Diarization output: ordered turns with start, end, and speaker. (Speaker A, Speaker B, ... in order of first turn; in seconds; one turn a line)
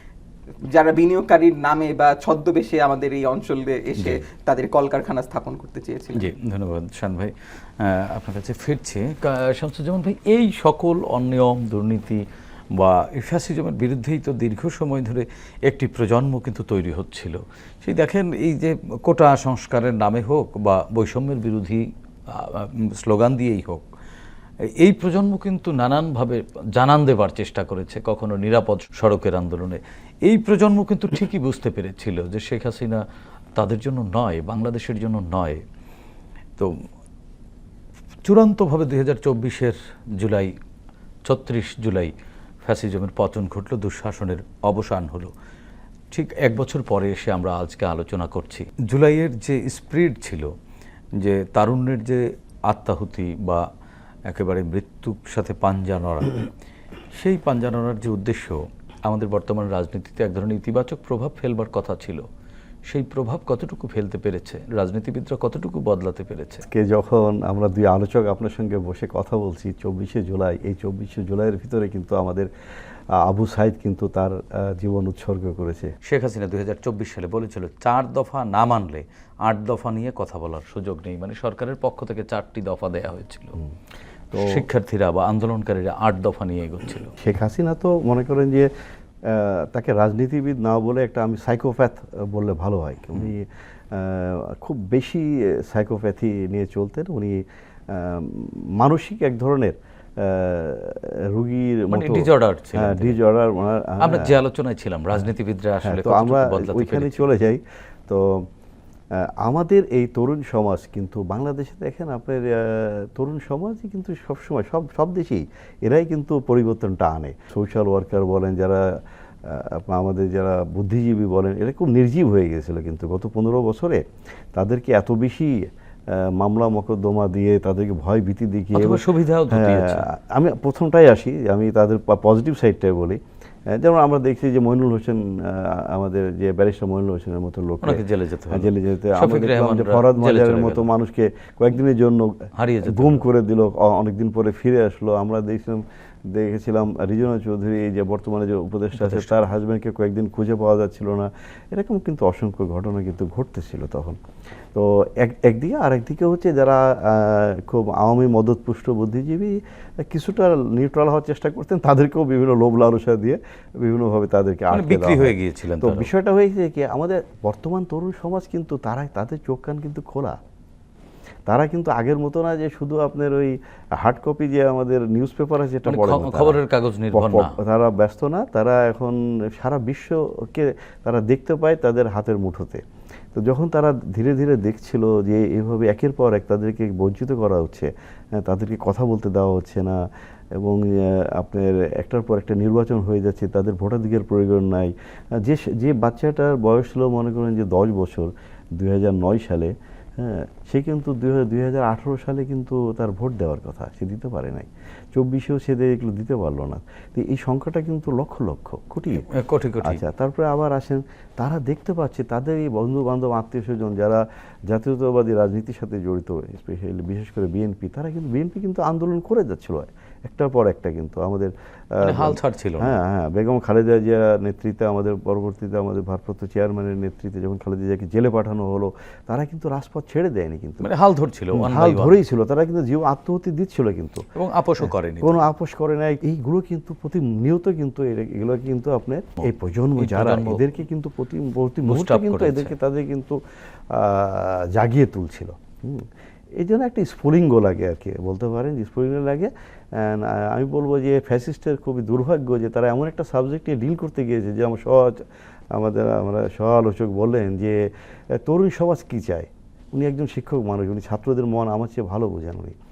Speaker A: 0.6-6.3
Speaker B: 4.0-4.2
Speaker B: 6.2-12.2
Speaker B: 12.8-23.9
Speaker B: 24.7-33.0
Speaker B: 33.5-35.6
Speaker B: 36.6-36.8
Speaker B: 38.2-40.5
Speaker B: 41.2-42.1
Speaker B: 42.6-45.3
Speaker B: 46.1-50.5
Speaker B: 51.2-53.6
Speaker B: 54.3-56.5
Speaker B: 57.1-62.3
Speaker B: 62.9-66.7
Speaker C: 66.7-72.5
Speaker C: 73.2-75.9
Speaker B: 76.0-83.6
Speaker C: 84.3-84.7
Speaker B: 84.3-87.1
Speaker C: 87.2-88.7
Speaker C: 89.2-104.4
Speaker B: 101.9-103.2
Speaker B: 104.0-107.2
Speaker C: 105.8-108.5
Speaker C: 109.2-124.0
Speaker C: 124.5-154.2
Speaker B: 128.7-130.1
Speaker B: 137.8-140.9
Speaker B: 142.6-143.3
Speaker B: 149.0-149.4
Speaker C: 154.7-170.4
Speaker B: 164.7-166.1
Speaker C: 171.5-176.6
Speaker B: 175.9-177.6
Speaker C: 177.1-182.8
Speaker C: 183.3-190.0
Speaker C: 190.6-209.3
Speaker B: 209.3-210.0
Speaker C: 209.8-230.9
Speaker B: 222.0-222.9
Speaker B: 230.8-232.2
Speaker C: 231.5-234.3
Speaker B: 234.3-235.4
Speaker C: 234.8-243.4
Speaker B: 239.4-240.6
Speaker B: 241.9-242.8
Speaker C: 243.9-262.8